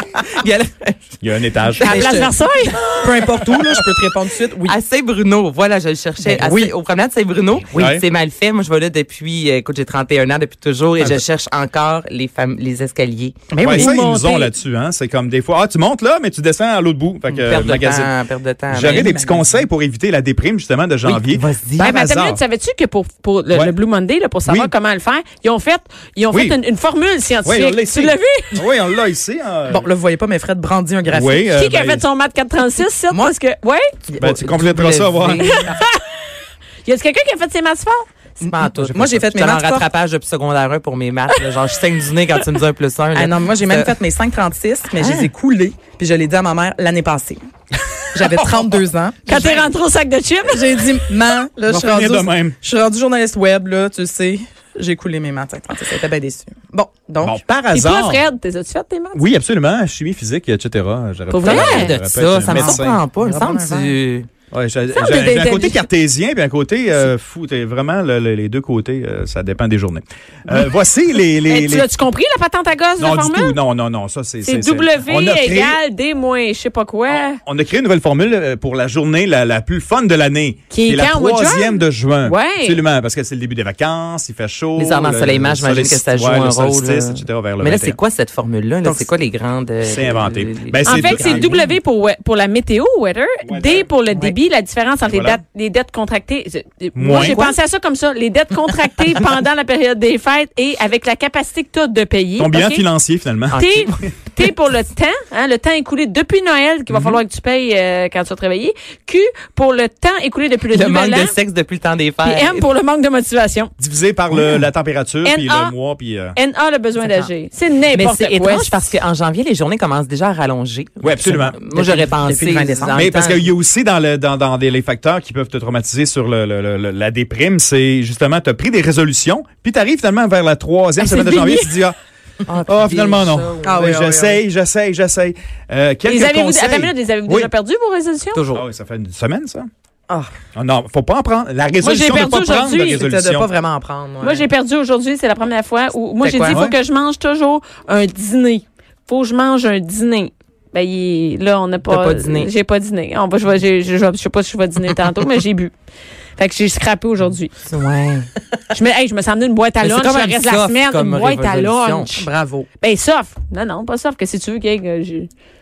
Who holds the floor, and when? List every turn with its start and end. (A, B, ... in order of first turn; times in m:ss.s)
0:00.2-0:01.0 A
0:01.2-0:02.1 B
0:01.8-0:02.9 C
0:01.8-0:04.8 D
0:04.6-0:13.5 A
0:06.2-0:06.7 D
0:07.8-0:08.0 B
0:13.5-0:13.9 D
0:13.6-0:14.5 C
0:13.6-0:18.1 B
0:17.3-0:19.2 A
0:18.7-0:22.4 B
0:18.9-0:19.6 D
0:21.0-0:21.9 A
0:21.8-0:28.6 C
0:24.5-0:24.7 B
0:26.3-0:26.6 B
0:27.4-0:29.9 B
0:29.7-0:31.5 D
0:31.1-0:32.1 B
0:31.5-0:34.0 C
0:33.1-0:33.4 D
0:34.2-0:35.6 B
0:34.2-0:35.7 A
0:35.4-0:36.0 C
0:36.8-0:38.1 C
0:38.4-0:44.0 A
0:38.4-0:39.9 D
0:43.1-0:47.4 D
0:45.0-0:45.3 A
0:48.1-0:49.7 D
0:48.3-0:48.7 B
0:49.3-0:51.0 C
0:50.5-0:57.4 D
0:51.7-0:52.6 B
0:57.2-0:58.2 B
0:57.7-0:59.2 C
0:59.1-1:03.0 B
1:01.3-1:01.9 C
1:01.4-1:04.3 A
1:02.4-1:03.9 D
1:04.5-1:11.9 B
1:04.9-1:05.8 C
1:11.4-1:13.6 C
1:13.0-1:15.8 B
1:14.4-1:17.4 C
1:17.4-1:28.0 B
1:20.7-1:22.8 C
1:24.8-1:31.4 A
1:28.8-1:29.1 D
1:29.8-1:31.6 B
1:30.9-1:42.9 C
1:31.4-1:31.6 D
1:33.4-1:33.9 B
1:35.0-1:35.4 B
1:37.0-1:37.5 B
1:37.3-1:37.6 A
1:42.4-1:43.6 B
1:43.5-1:44.0 A
1:43.5-1:51.4 C
1:46.9-1:47.2 B
1:50.7-1:52.7 A
1:52.2-1:53.7 C
1:53.8-1:56.4 B
1:55.2-1:55.7 C
1:56.4-1:58.9 C
1:57.0-1:57.3 A
1:57.9-2:03.4 A
2:01.0-2:01.6 B
2:01.7-2:03.5 D
2:03.0-2:12.0 B
2:11.0-2:11.8 C
2:12.5-2:13.8 A
2:12.6-2:17.5 B
2:13.6-2:14.4 D
2:16.1-2:18.4 C
2:18.4-2:18.6 A
2:18.5-2:19.7 B
2:20.6-2:23.5 B
2:21.8-2:23.1 C
2:22.8-2:24.5 D
2:24.2-2:35.7 C
2:26.2-2:26.6 D
2:26.5-2:26.8 B
2:31.9-2:32.5 A
2:36.4-2:37.6 C
2:37.7-2:38.3 A
2:38.7-2:42.3 C
2:39.8-2:42.2 A
2:42.2-2:42.7 D
2:42.8-2:45.3 C